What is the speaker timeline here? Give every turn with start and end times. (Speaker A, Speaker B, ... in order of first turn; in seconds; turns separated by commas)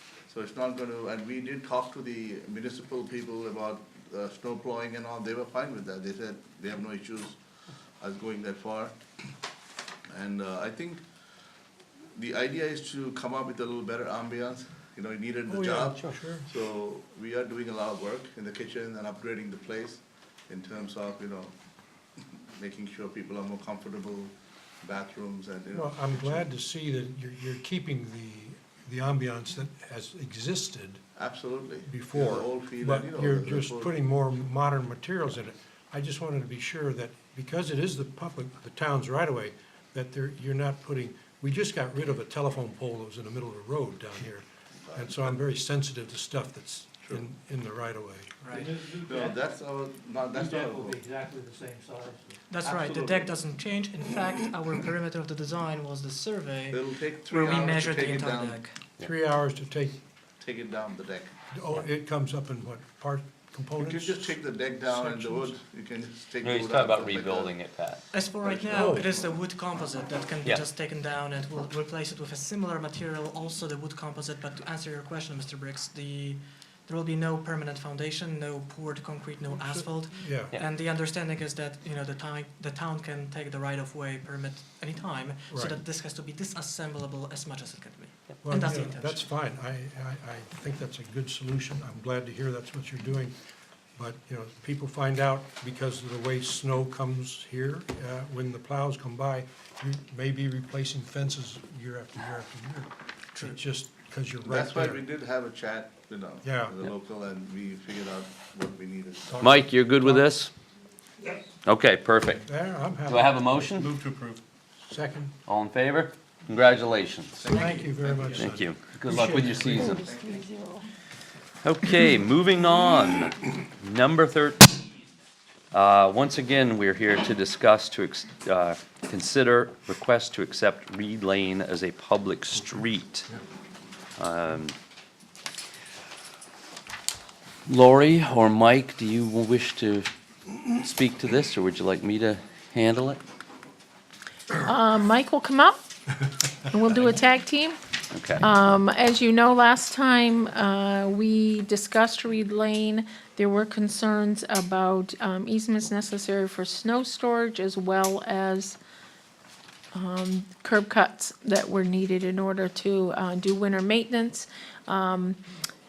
Speaker A: 0.3-7.4, Speaker A: 8.0-9.0, Speaker A: 10.1-11.0, Speaker A: 12.1-21.5, Speaker B: 15.5-16.5, Speaker A: 22.3-26.5, Speaker B: 25.7-31.0, Speaker A: 31.2-33.9, Speaker B: 31.9-49.4, Speaker A: 44.9-45.4, Speaker C: 48.4-48.7, Speaker A: 48.9-51.0, Speaker B: 50.3-52.4, Speaker C: 52.5-58.8, Speaker A: 52.6-53.4, Speaker A: 56.7-58.6, Speaker B: 59.0-60.0, Speaker A: 60.4-61.3, Speaker B: 61.5-65.6, Speaker A: 63.8-67.6, Speaker D: 66.4-68.0, Speaker C: 68.1-89.3, Speaker A: 68.4-69.4, Speaker B: 68.7-69.0, Speaker B: 79.6-80.5, Speaker B: 85.5-85.8, Speaker B: 88.4-93.3, Speaker B: 94.0-105.0, Speaker A: 104.5-109.4, Speaker B: 106.4-106.9, Speaker B: 109.3-110.3, Speaker D: 109.4-110.5, Speaker D: 111.6-112.5, Speaker B: 112.4-114.0, Speaker D: 113.1-114.0, Speaker B: 114.8-115.3, Speaker D: 115.5-117.7, Speaker A: 117.3-118.5, Speaker B: 117.4-119.7, Speaker D: 118.3-120.0, Speaker A: 119.1-120.5, Speaker E: 119.7-120.9, Speaker D: 121.6-124.8, Speaker D: 125.7-133.3, Speaker D: 134.2-134.7, Speaker D: 137.7-140.1, Speaker D: 140.7-143.2, Speaker E: 144.6-145.8, Speaker E: 146.6-147.8, Speaker D: 148.1-148.5, Speaker E: 148.3-158.8, Speaker E: 159.9-165.4